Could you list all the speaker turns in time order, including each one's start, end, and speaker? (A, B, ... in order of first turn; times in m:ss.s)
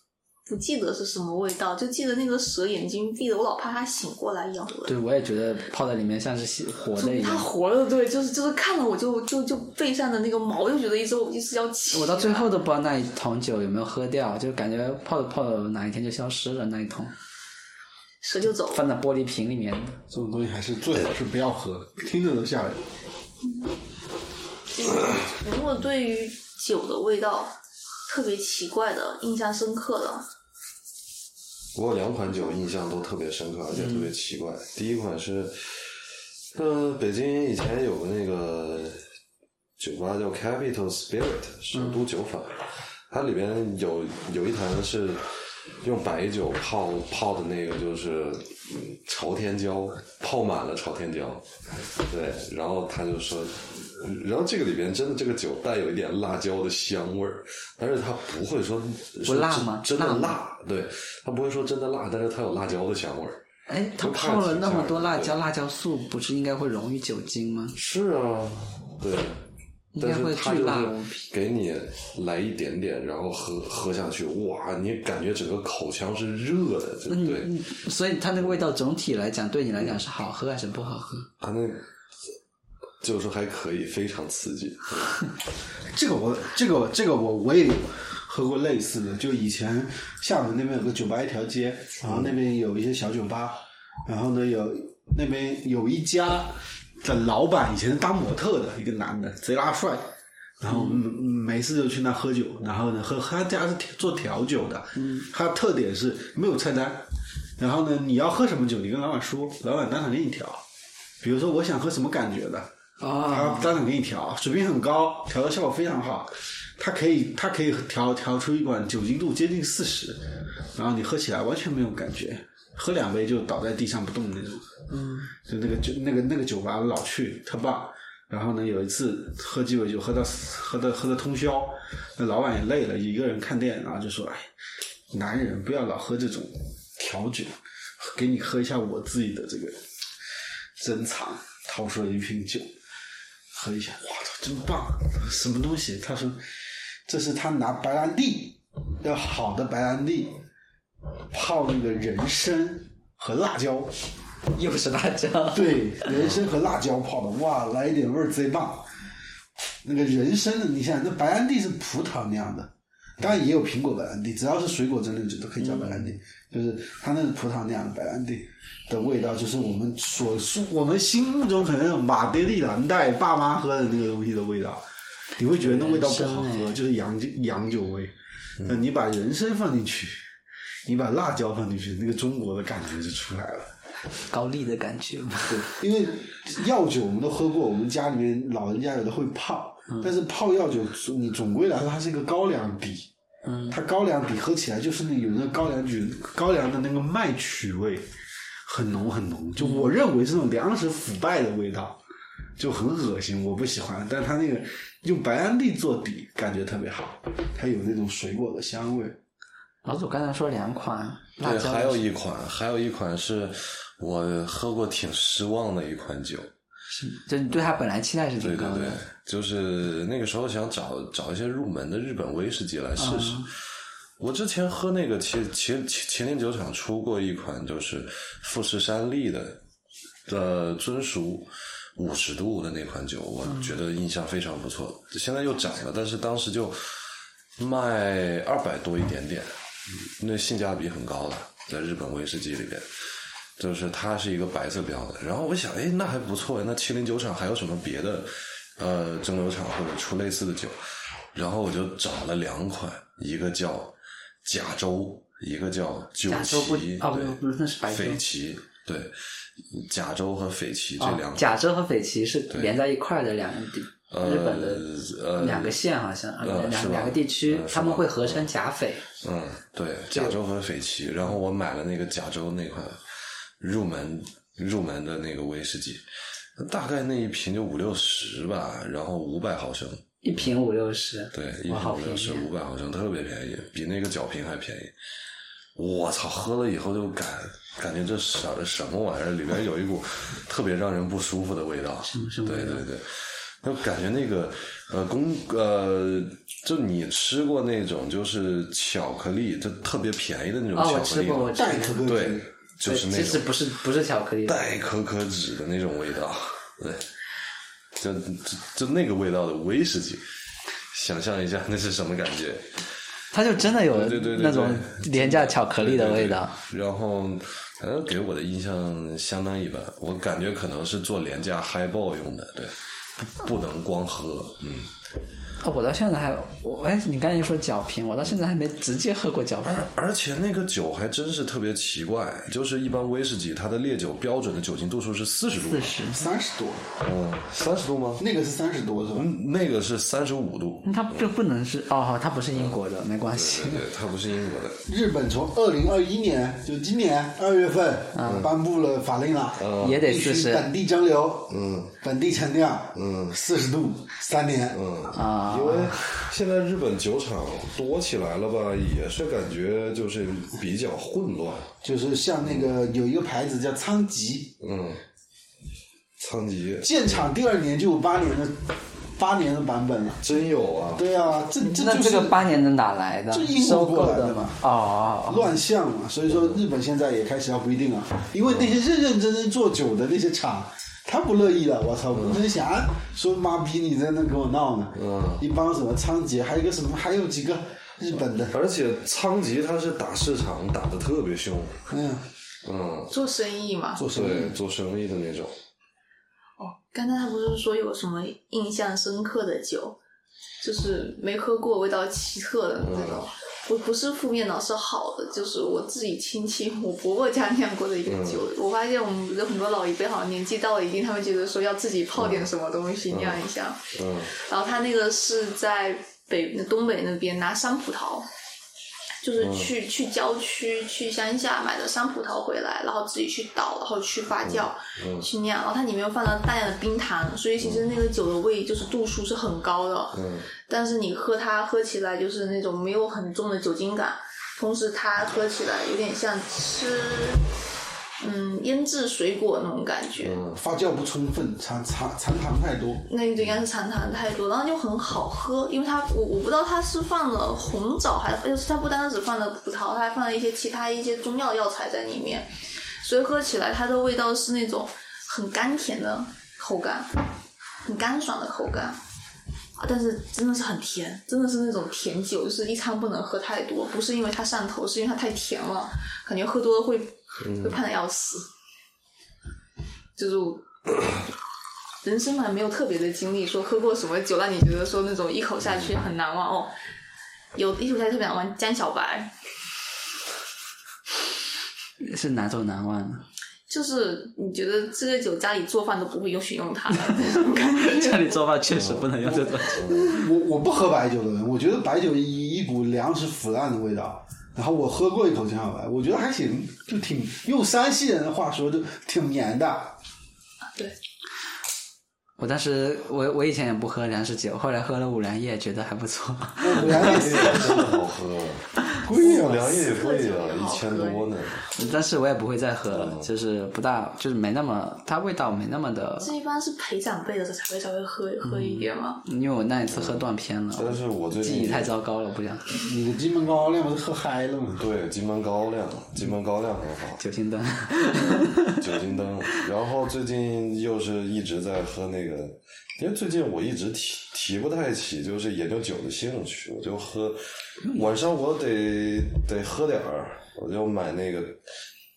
0:00.4-0:04.9 A
0:04.9-0:07.5 B
0:07.0-0:12.5 A
0:11.9-0:17.1 B
0:18.2-0:18.8 A
0:18.7-0:20.0 B
0:20.1-0:22.8 C
0:24.7-0:27.5 A
0:28.1-0:30.2 A
0:31.7-0:39.0 D
0:33.8-0:34.1 B
0:39.8-1:03.4 D
0:41.7-0:42.0 B
0:59.2-1:00.4 B
1:03.7-1:07.8 B
1:04.0-1:05.4 D
1:07.7-1:09.4 D
1:09.9-1:11.3 B
1:10.0-1:17.5 D
1:17.1-1:21.3 B
1:21.4-1:21.8 D
1:23.0-1:25.2 D
1:25.9-1:47.0 C
1:32.0-1:32.3 D
1:40.7-1:41.0 B
1:45.0-1:45.3 B
1:47.6-1:50.6 C
1:51.2-1:52.7 C
1:53.0-1:53.8 B
1:53.3-2:04.7 C
2:04.9-2:05.3 B
2:05.4-2:14.5 C
2:15.1-2:19.8 C
2:20.8-2:22.7 C
2:23.5-2:26.4 C
2:27.0-2:30.4 C
2:31.3-2:33.9 C
2:34.5-2:36.2 B
2:35.5-2:38.9 C
2:39.8-2:54.8 C
2:45.6-2:46.1 B
2:55.4-3:00.3 C
2:55.6-2:56.8 B
3:00.8-3:03.7 C
3:04.3-3:05.8 B
3:05.5-3:13.1 C
3:13.4-3:13.8 B
3:13.7-3:18.1 C
3:18.6-3:22.0 C
3:19.6-3:19.9 B
3:22.6-3:29.2 C
3:29.8-3:32.1 B
3:31.4-3:36.5 D
3:36.9-3:39.0 B
3:38.4-3:43.5 D
3:43.0-3:43.5 B
3:44.2-3:49.6 D
3:50.2-3:57.0 D
3:57.6-4:02.9 D
4:03.6-4:10.8 D
4:11.3-4:21.5 D
4:16.3-4:18.2 B
4:21.0-4:29.0 B
4:24.1-4:25.8 D
4:26.4-4:28.5 D
4:29.2-4:33.1 D
4:33.6-4:40.0 D
4:40.2-4:42.5 B
4:41.3-4:44.9 D
4:45.8-5:03.5 D
4:52.0-4:52.8 B
5:00.7-5:02.1 B
5:01.5-5:02.5 C
5:02.8-5:04.6 B
5:04.4-5:07.1 D
5:08.0-5:10.2 D
5:10.9-5:12.8 D
5:13.3-5:16.6 B
5:13.7-5:24.9 D
5:25.6-5:29.9 B
5:29.6-5:35.9 D
5:35.7-5:36.3 B
5:36.1-5:36.9 C
5:37.0-5:38.2 D
5:38.2-5:39.3 C
5:39.1-5:41.3 D
5:40.8-5:43.9 B
5:42.5-5:42.8 D
5:43.3-5:44.8 D
5:44.8-5:54.8 C
5:48.1-5:48.4 B
5:49.6-5:50.0 D
5:49.8-5:50.7 B
5:51.5-5:51.9 D
5:52.9-5:53.4 D
5:54.7-6:01.7 D
5:55.1-5:56.2 B
6:01.8-6:04.6 C
6:02.4-6:02.7 D
6:04.6-6:05.0 D
6:06.2-6:07.1 D
6:06.8-6:10.2 C
6:10.2-6:11.1 D
6:10.9-6:12.4 C
6:11.6-6:15.5 B
6:13.3-6:14.6 C
6:15.3-6:28.6 C
6:16.3-6:16.6 D
6:25.0-6:25.4 D
6:28.5-6:31.8 D
6:31.9-6:32.2 C
6:32.6-6:33.1 D
6:33.1-6:34.0 A
6:34.0-6:34.6 C
6:34.0-6:35.5 D
6:36.6-6:40.0 A
6:40.6-6:58.2 A
6:42.8-6:43.2 D
6:48.0-6:48.4 D
6:52.2-6:52.5 D
6:53.1-6:54.3 D
6:59.2-7:17.4 A
6:59.4-6:59.7 D
7:04.4-7:05.3 D
7:10.1-7:10.5 D
7:18.2-7:20.4 A
7:20.2-7:20.6 D
7:20.5-7:23.0 C
7:23.1-7:32.5 A
7:33.0-7:37.2 A
7:37.8-7:39.0 A
7:39.8-7:48.5 A
7:47.4-7:47.8 D
7:50.2-7:50.6 A
7:52.0-7:56.7 A
7:57.5-7:59.3 A
8:02.0-8:03.2 B
8:03.7-8:08.3 A
8:07.0-8:09.9 B
8:08.6-8:09.2 D
8:09.2-8:20.0 C
8:09.7-8:10.1 D
8:22.4-8:28.0 B
8:26.6-8:27.8 C
8:26.7-8:31.6 D
8:29.0-8:29.8 C
8:29.2-8:31.7 A
8:31.7-8:36.3 B
8:32.9-8:33.3 D
8:36.2-8:39.2 A
8:38.4-8:42.8 B
8:39.9-8:41.9 D
8:42.8-8:44.9 C
8:44.8-8:47.2 D
8:47.2-8:48.8 B
8:48.1-9:01.6 D
8:57.8-8:58.1 B